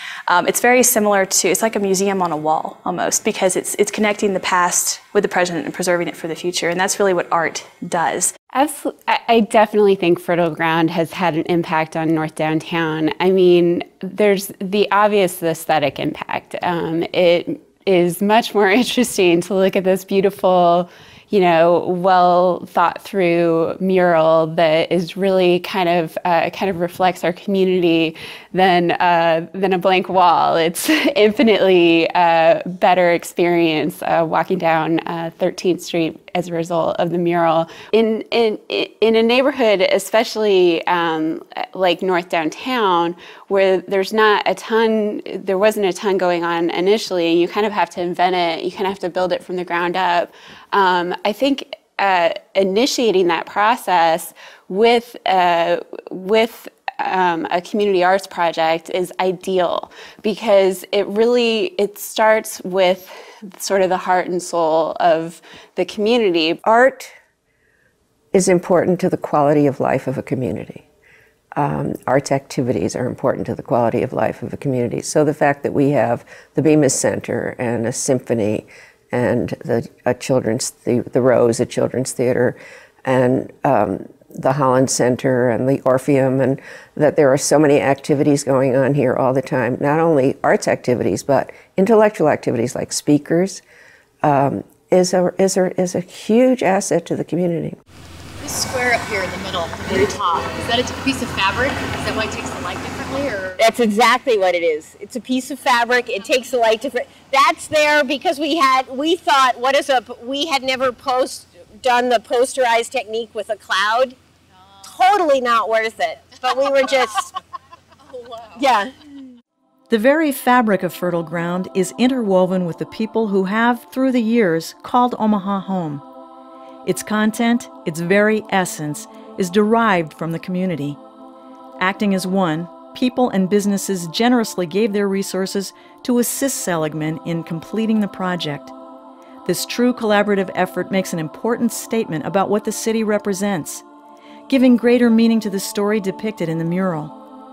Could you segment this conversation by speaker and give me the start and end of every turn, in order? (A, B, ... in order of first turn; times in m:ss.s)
0:00.3-0:08.3 A
0:08.5-1:06.6 B
1:06.6-1:07.1 C
1:08.3-1:10.8 C
1:11.6-1:33.6 C
1:34.2-1:37.8 C
1:38.4-1:43.6 D
1:39.9-1:40.2 E
1:43.6-1:54.2 E
1:54.9-1:57.3 E
1:58.5-1:58.9 E
1:59.9-2:06.0 F
2:06.8-2:11.0 F
2:11.8-2:18.7 F
2:19.4-2:23.8 F
2:24.5-2:27.2 F